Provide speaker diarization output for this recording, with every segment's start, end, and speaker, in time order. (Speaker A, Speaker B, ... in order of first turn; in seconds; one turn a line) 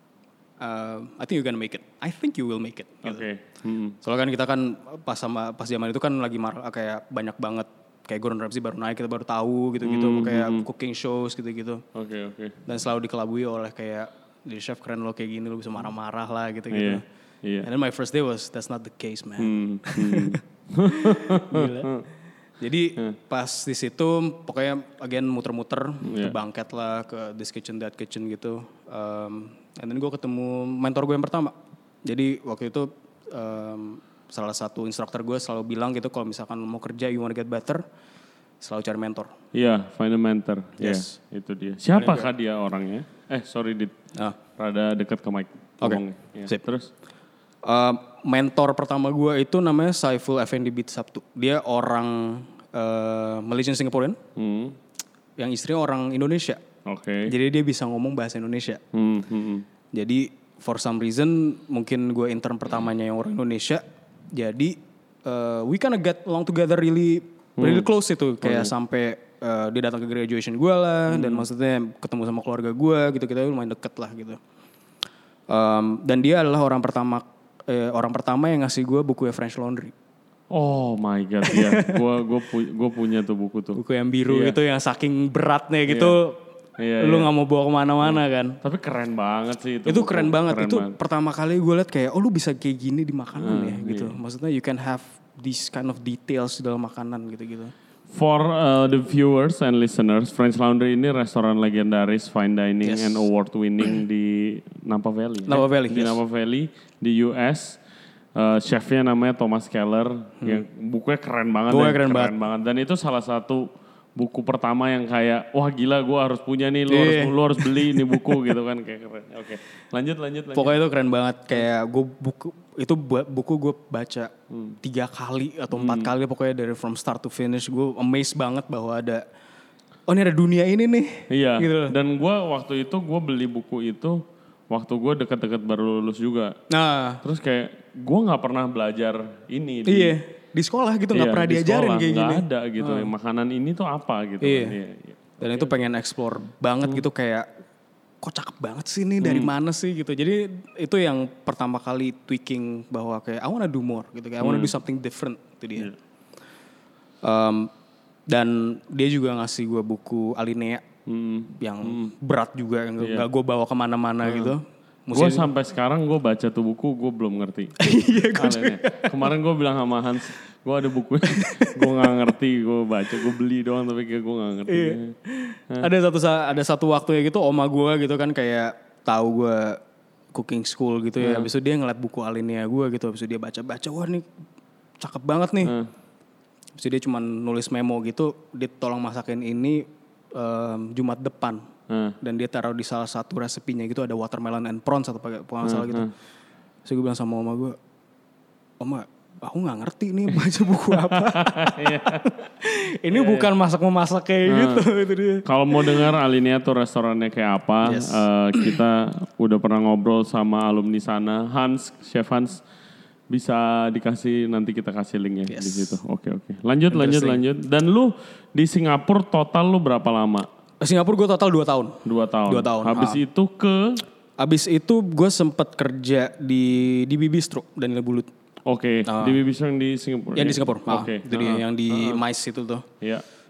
Speaker A: 0.6-3.3
Speaker B: 3.0-4.0
Speaker A: 4.0-11.8
Speaker B: 9.8-10.7
Speaker B: 11.9-12.6
Speaker A: 12.7-17.0
Speaker B: 16.7-17.7
Speaker A: 17.6-21.9
Speaker B: 19.4-22.1
Speaker A: 22.6-37.8
Speaker B: 26.0-26.4
Speaker A: 38.6-39.3
Speaker B: 39.5-44.0
Speaker A: 40.8-41.1
Speaker A: 42.0-42.3
Speaker B: 44.6-46.9
Speaker A: 45.8-46.6
Speaker A: 47.6-54.2
Speaker B: 54.4-54.8
Speaker A: 55.4-56.6
Speaker B: 56.9-57.3
Speaker A: 57.3-58.8
Speaker B: 58.9-59.6
Speaker A: 59.9-74.4
Speaker B: 67.6-67.9
Speaker B: 68.4-68.7
Speaker B: 71.1-71.5
Speaker A: 75.5-79.9
Speaker B: 80.5-84.6
Speaker A: 81.5-82.0
Speaker A: 83.8-86.4
Speaker B: 85.9-86.2
Speaker B: 86.8-87.3
Speaker A: 87.0-88.6
Speaker B: 88.0-91.0
Speaker A: 89.9-97.7
Speaker B: 93.4-94.2
Speaker B: 98.1-107.8
Speaker A: 102.8-103.3
Speaker A: 105.5-106.2
Speaker B: 108.4-120.8
Speaker A: 111.7-112.3
Speaker A: 116.9-118.4
Speaker A: 120.5-124.3
Speaker B: 124.5-124.8
Speaker A: 124.8-129.2
Speaker B: 125.7-126.1
Speaker A: 130.1-131.9
Speaker B: 131.3-136.6
Speaker A: 136.7-137.2
Speaker B: 137.2-140.2
Speaker A: 139.9-143.1
Speaker B: 141.1-145.7
Speaker A: 144.4-144.8
Speaker A: 145.4-147.5
Speaker A: 148.2-155.9
Speaker B: 149.2-149.5
Speaker B: 154.4-154.7
Speaker A: 157.2-157.7
Speaker A: 158.3-160.8
Speaker B: 161.1-162.1
Speaker A: 161.6-165.5
Speaker B: 164.2-164.5
Speaker B: 165.1-175.2
Speaker A: 167.8-169.1
Speaker A: 171.3-172.1
Speaker A: 174.7-179.8
Speaker A: 180.3-184.3
Speaker B: 181.2-181.5
Speaker A: 185.0-185.7
Speaker B: 185.6-185.9
Speaker A: 186.8-191.7
Speaker B: 191.9-192.2
Speaker A: 192.2-196.1
Speaker B: 195.6-196.1
Speaker A: 196.8-197.8
Speaker A: 198.8-206.1
Speaker B: 200.9-202.2
Speaker B: 203.1-203.5
Speaker B: 204.5-204.8
Speaker B: 205.4-212.6
Speaker A: 207.8-208.8
Speaker B: 213.3-220.5
Speaker A: 215.5-216.0
Speaker A: 216.9-217.4
Speaker A: 220.8-223.2
Speaker B: 222.1-224.0
Speaker A: 224.4-228.3
Speaker B: 228.7-232.2
Speaker A: 229.1-229.4
Speaker A: 230.3-232.9